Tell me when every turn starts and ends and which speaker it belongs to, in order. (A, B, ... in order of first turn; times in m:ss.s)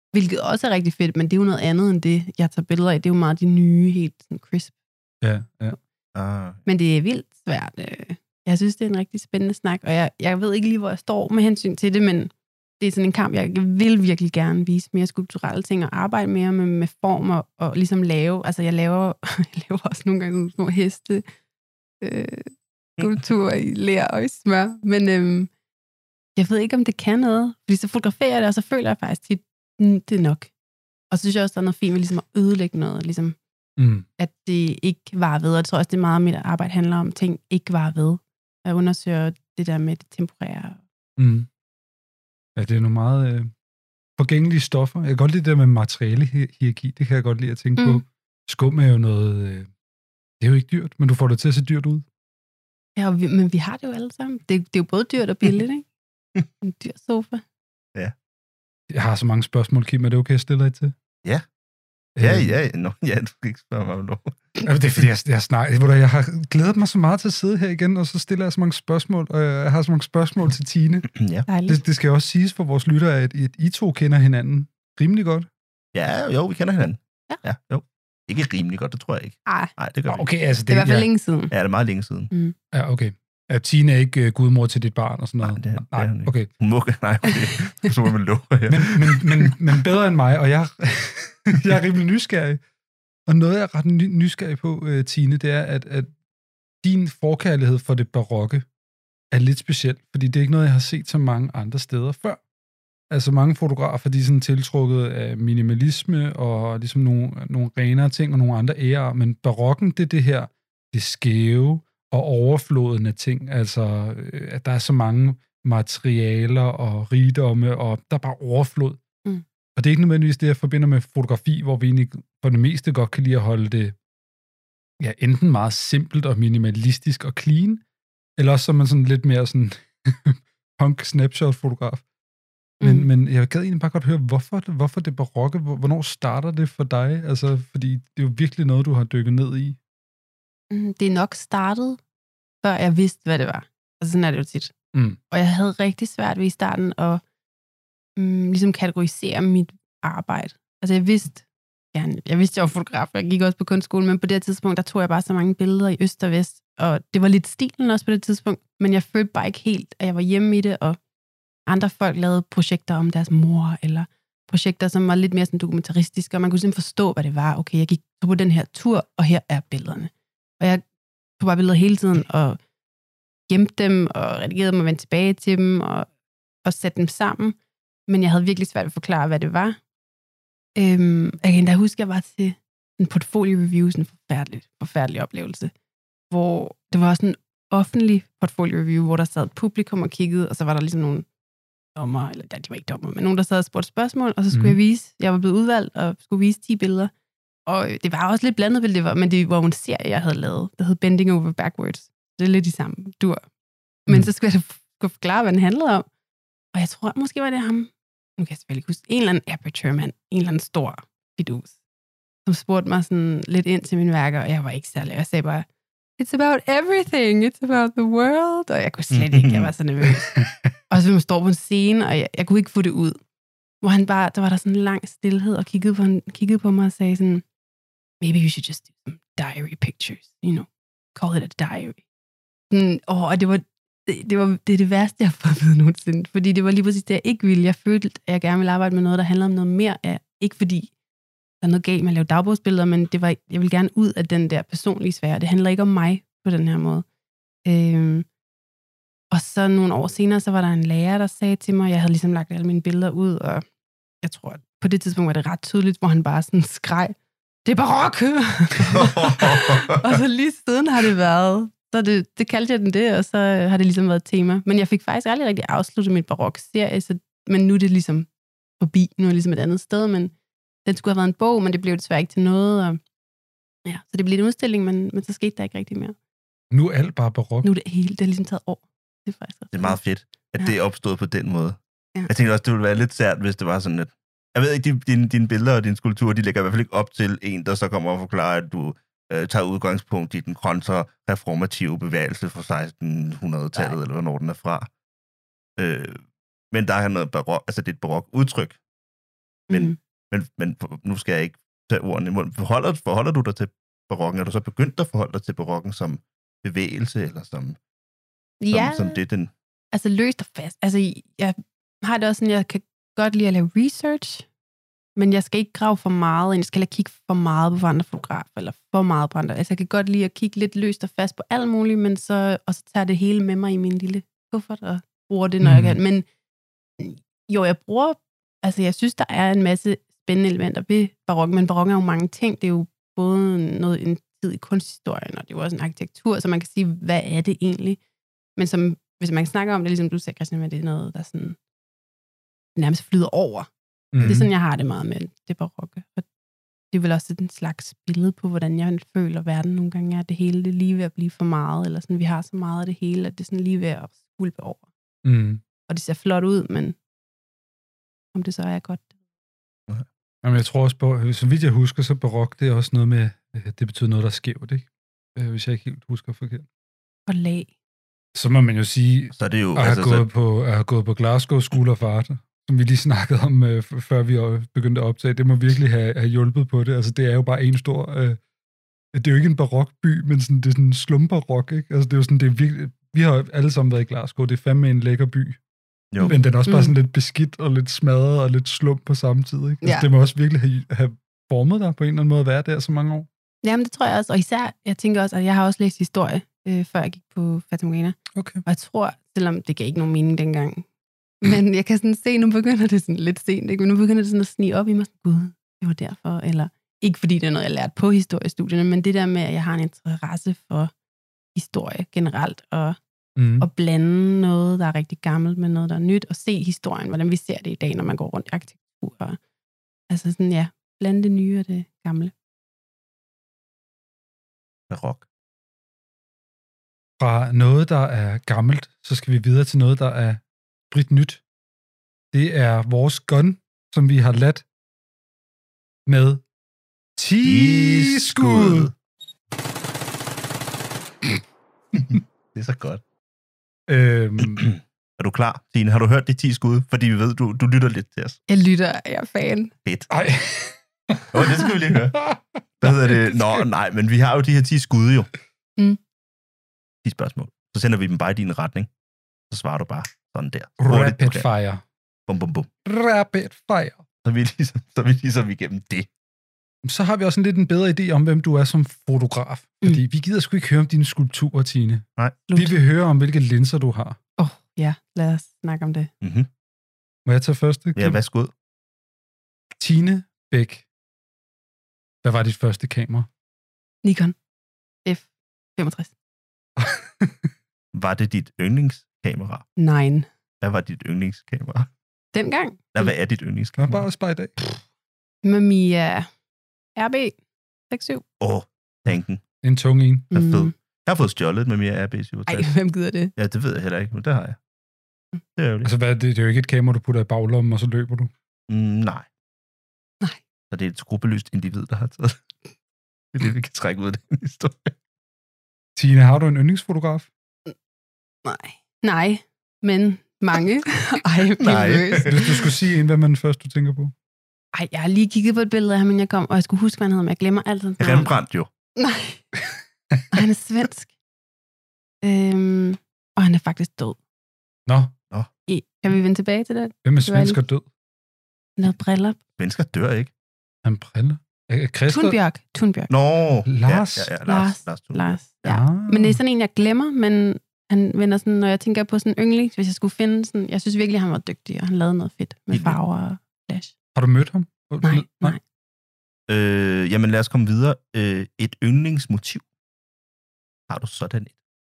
0:00.1-0:04.7 A
0:05.2-0:05.8 B
0:06.1-0:06.6 C
0:06.6-0:21.2 A
0:22.0-0:25.5 A
0:26.4-0:30.5 A
0:31.1-0:33.4 A
0:33.8-0:34.0 B
0:34.2-0:40.8 A
0:41.2-0:41.5 B
0:42.6-0:43.5 B
0:44.2-0:49.7 B
0:47.8-0:48.0 A
0:50.4-0:52.0 B
0:53.0-0:55.8 A
0:56.6-0:57.4 A
0:58.9-1:00.9 B
1:02.2-1:02.6 B
1:02.2-1:04.6 C
1:04.6-1:11.1 B
1:11.1-1:11.4 C
1:11.5-1:11.8 A
1:11.7-1:15.5 B
1:15.9-1:20.3 C
1:19.4-1:19.7 A
1:20.1-1:21.1 B
1:20.7-1:21.5 A
1:21.5-1:22.3 C
1:22.7-1:26.5 B
1:25.4-1:29.5 C
1:28.7-1:32.6 B
1:33.3-1:36.1 B
1:36.8-1:38.6 B
1:39.3-1:42.4 B
1:43.1-1:59.0 B
1:59.8-2:04.0 B
2:05.0-2:07.8 B
2:08.4-2:12.0 B
2:12.8-2:13.1 A
2:12.8-2:19.8 B
2:20.7-2:22.0 A
2:22.6-2:24.7 A
2:25.3-2:27.2 A
2:28.2-2:41.0 A
2:41.7-2:50.8 A
2:51.4-2:52.6 A
2:53.5-2:56.1 A
2:56.6-2:57.6 A
2:58.1-2:59.8 A
3:00.8-3:05.7 A
3:06.3-3:11.2 A
3:12.0-3:17.1 A
3:14.5-3:14.8 B
3:17.7-3:23.4 A
3:24.1-3:26.1 A
3:26.7-3:31.8 A
3:32.4-3:35.6 A
3:36.2-3:43.2 A
3:39.1-3:39.7 C
3:40.4-3:40.7 B
3:43.8-3:47.4 A
3:48.2-3:52.0 A
3:52.7-4:00.9 A
4:01.6-4:07.0 A
4:07.6-4:08.2 A
4:09.3-4:13.6 A
4:14.2-4:17.1 A
4:17.6-4:28.3 A
4:18.9-4:20.2 C
4:28.8-4:30.3 A
4:30.8-4:33.0 A
4:33.8-4:36.1 A
4:36.7-4:37.7 B
4:37.6-4:40.0 A
4:39.7-4:54.9 C
4:55.8-4:58.8 C
4:59.7-5:00.0 A
4:59.7-5:07.8 C
5:08.6-5:09.2 A
5:08.7-5:09.5 C
5:09.9-5:14.4 A
5:15.2-5:26.2 A
5:25.6-5:26.0 B
5:27.0-5:38.0 A
5:38.6-5:41.6 A
5:42.8-5:43.7 A
5:44.1-5:44.5 B
5:44.2-5:46.2 A
5:46.9-5:54.8 A
5:55.2-5:55.6 B
5:55.9-5:57.0 A
5:58.3-5:59.1 A
6:00.4-6:06.6 B
6:07.3-6:07.7 A
6:08.3-6:18.4 B
6:09.3-6:10.2 C
6:19.1-6:25.6 B
6:26.2-6:26.9 A
6:26.2-6:33.3 B
6:33.6-6:40.8 A
6:38.3-6:38.6 B
6:41.4-6:50.9 A
6:51.5-6:53.0 A
6:53.4-6:53.7 B
6:53.6-6:59.4 A
7:00.1-7:02.3 A
7:04.9-7:05.2 C
7:07.2-7:11.4 B
7:12.3-7:14.6 B
7:16.1-7:16.4 B
7:17.2-7:18.9 B
7:17.4-7:18.9 C
7:21.9-7:23.0 C
7:23.9-7:24.6 B
7:24.4-7:28.4 C
7:28.5-7:29.7 A
7:30.1-7:31.3 B
7:31.3-7:32.3 C
7:32.2-7:33.6 B
7:32.8-7:35.3 C
7:37.0-7:38.9 C
7:39.5-7:41.5 C
7:40.8-7:41.8 B
7:42.3-7:42.7 C
7:42.8-7:44.0 B
7:44.2-7:46.1 C
7:46.8-7:54.2 B
7:52.5-7:52.8 A
7:54.4-7:56.1 A
7:56.2-7:56.5 C
7:57.2-7:58.2 B
7:58.0-7:58.5 C
7:59.8-8:00.8 B
8:02.2-8:03.3 B
8:04.0-8:04.3 A
8:05.0-8:06.1 A
8:06.8-8:07.5 B
8:07.9-8:09.6 C
8:09.8-8:10.3 A
8:10.6-8:11.9 C
8:12.3-8:13.1 A
8:12.9-8:14.0 C
8:13.8-8:14.6 B
8:15.4-8:16.3 A
8:17.0-8:17.3 A
8:17.9-8:18.2 A
8:18.4-8:19.4 C
8:19.6-8:20.2 B
8:20.3-8:22.7 C
8:20.3-8:20.7 A
8:22.5-8:23.3 A
8:23.4-8:24.6 C
8:25.6-8:25.9 C
8:25.8-8:28.3 B
8:28.7-8:29.3 C
8:30.7-8:32.4 C
8:33.3-8:34.9 C
8:36.0-8:37.3 B
8:38.4-8:42.6 A
8:41.6-8:42.4 C
8:42.2-8:44.1 B
8:44.7-8:48.4 A
8:48.0-8:48.7 C
8:49.0-8:49.5 A
8:50.3-8:51.1 A
8:52.2-8:54.2 A
8:54.9-8:55.1 B
8:55.7-8:57.6 A
8:57.0-8:57.8 B
8:58.8-8:59.4 A
8:59.6-9:00.3 C
9:00.8-9:02.4 B
9:02.1-9:03.1 A
9:03.1-9:05.8 C
9:03.6-9:04.3 B
9:04.4-9:13.9 A
9:05.6-9:06.4 B
9:12.7-9:13.0 C
9:14.2-9:15.6 B
9:15.0-9:15.6 A
9:16.5-9:19.6 C
9:20.9-9:21.6 C